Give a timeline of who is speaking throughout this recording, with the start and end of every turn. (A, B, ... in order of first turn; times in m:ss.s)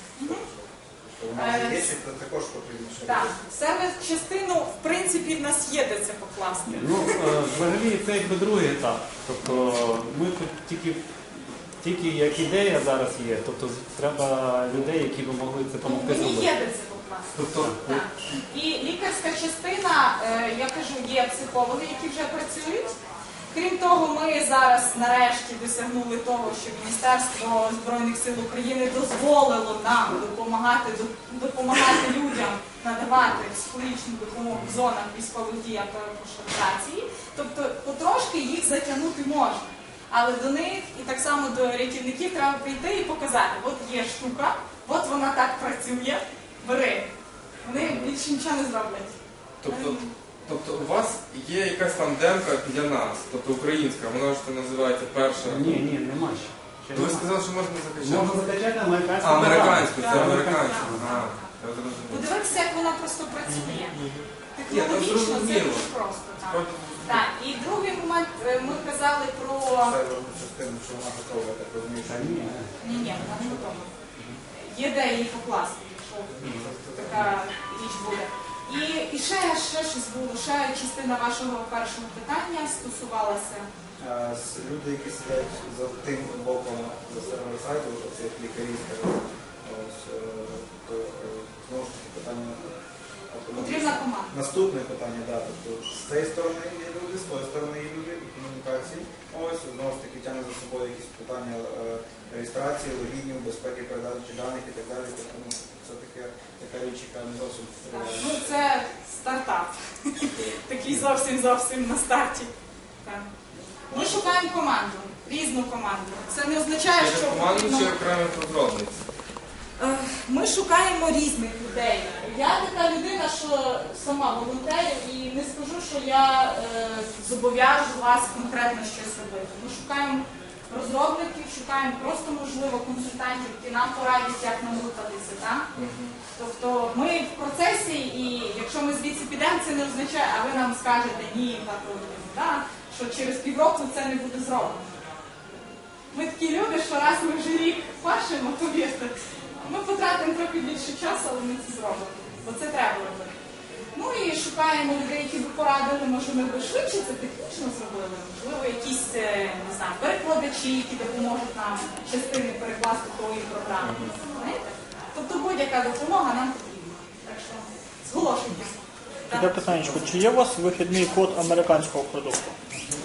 0:00.2-0:03.3 A
0:01.4-0:01.9 B
0:03.0-0:07.4 B
0:06.7-0:11.0 C
0:11.8-0:16.5 C
0:15.8-0:23.0 B
0:17.3-0:17.8 D
0:17.5-0:18.0 C
0:23.5-0:47.1 B
0:34.5-0:34.8 D
0:47.6-0:50.1 B
0:47.8-0:48.1 D
0:49.6-0:55.8 D
0:55.4-0:57.3 C
0:56.9-0:58.5 D
0:58.0-1:01.1 C
0:59.2-1:02.4 D
0:59.9-1:01.5 B
1:02.1-1:04.0 B
1:03.8-1:05.9 D
1:04.6-1:10.0 B
1:06.4-1:07.2 D
1:09.8-1:13.6 A
1:12.0-1:12.7 C
1:12.8-1:13.9 B
1:14.5-1:23.7 B
1:16.4-1:17.3 A
1:16.4-1:16.7 D
1:24.0-1:32.7 A
1:33.3-1:48.5 A
1:33.6-1:34.3 B
1:47.9-1:52.5 B
1:53.0-1:53.3 B
1:53.9-1:58.0 B
1:56.9-1:59.0 D
1:59.8-2:15.7 B
2:15.7-2:16.2 D
2:16.4-2:24.8 B
2:26.1-2:33.4 B
2:33.9-2:44.6 B
2:43.8-2:44.2 D
2:45.1-2:49.6 B
2:49.3-2:52.6 E